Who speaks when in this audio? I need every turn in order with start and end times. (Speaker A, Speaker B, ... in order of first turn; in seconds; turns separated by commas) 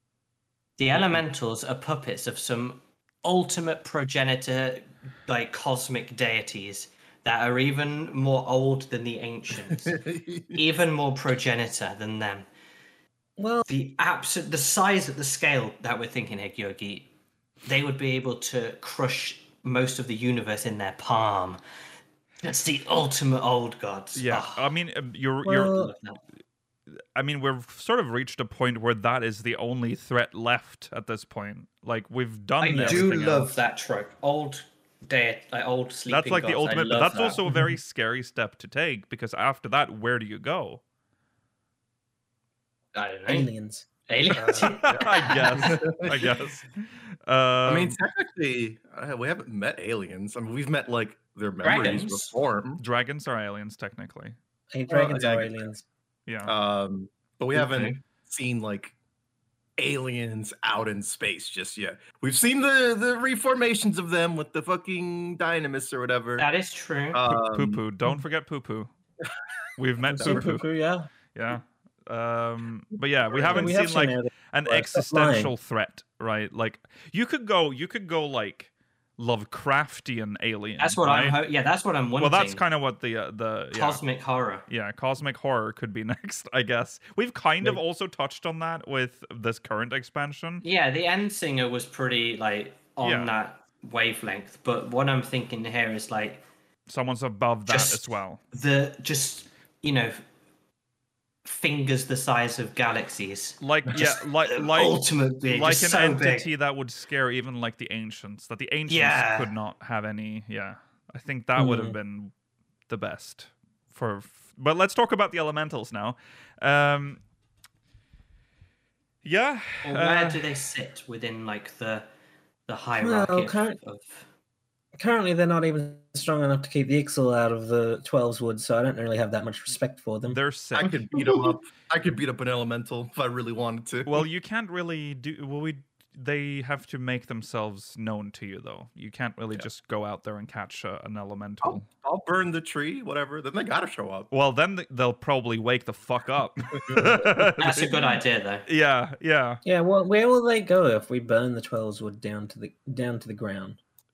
Speaker A: 0.8-10.0, Speaker B: 9.8-10.6, Speaker A: 10.5-12.4, Speaker C: 13.4-13.7, Speaker A: 13.7-17.1, Speaker A: 17.6-21.6, Speaker A: 22.4-24.7, Speaker D: 24.1-25.9, Speaker C: 25.4-25.9, Speaker A: 25.7-26.2, Speaker D: 27.1-33.5, Speaker A: 32.6-37.4, Speaker B: 32.8-33.4, Speaker D: 36.1-40.8, Speaker C: 37.5-37.7, Speaker A: 42.9-43.5, Speaker C: 43.3-43.9, Speaker A: 44.1-45.7, Speaker B: 44.3-46.3, Speaker D: 44.5-48.0, Speaker B: 47.6-52.8, Speaker A: 51.6-52.3, Speaker D: 52.8-54.4, Speaker C: 54.7-55.8, Speaker B: 54.9-55.5, Speaker D: 56.3-56.5, Speaker B: 56.5-58.9, Speaker A: 57.5-58.0, Speaker B: 59.8-66.5, Speaker A: 66.4-67.2, Speaker B: 67.1-67.8, Speaker D: 67.5-68.9, Speaker D: 69.8-70.6, Speaker C: 70.1-71.1, Speaker B: 70.2-70.6, Speaker D: 71.3-81.4, Speaker B: 73.3-73.7, Speaker C: 73.4-75.5, Speaker A: 80.8-82.6, Speaker D: 82.2-84.0, Speaker A: 83.7-84.7, Speaker D: 84.7-90.6, Speaker A: 90.6-96.4, Speaker D: 93.0-93.3, Speaker D: 96.9-98.4, Speaker A: 97.7-100.2, Speaker A: 101.4-106.5, Speaker D: 103.6-112.3, Speaker A: 108.9-109.5, Speaker C: 111.5-112.0, Speaker D: 112.9-117.2, Speaker D: 119.2-120.4, Speaker A: 119.8-122.1, Speaker A: 122.7-124.3, Speaker C: 123.0-123.8, Speaker C: 125.0-130.4, Speaker D: 130.3-131.1, Speaker B: 130.7-134.2, Speaker D: 134.1-141.8, Speaker B: 141.6-144.3, Speaker D: 144.3-148.0, Speaker B: 146.7-147.2, Speaker A: 147.6-148.7, Speaker D: 148.7-149.6, Speaker C: 149.6-153.8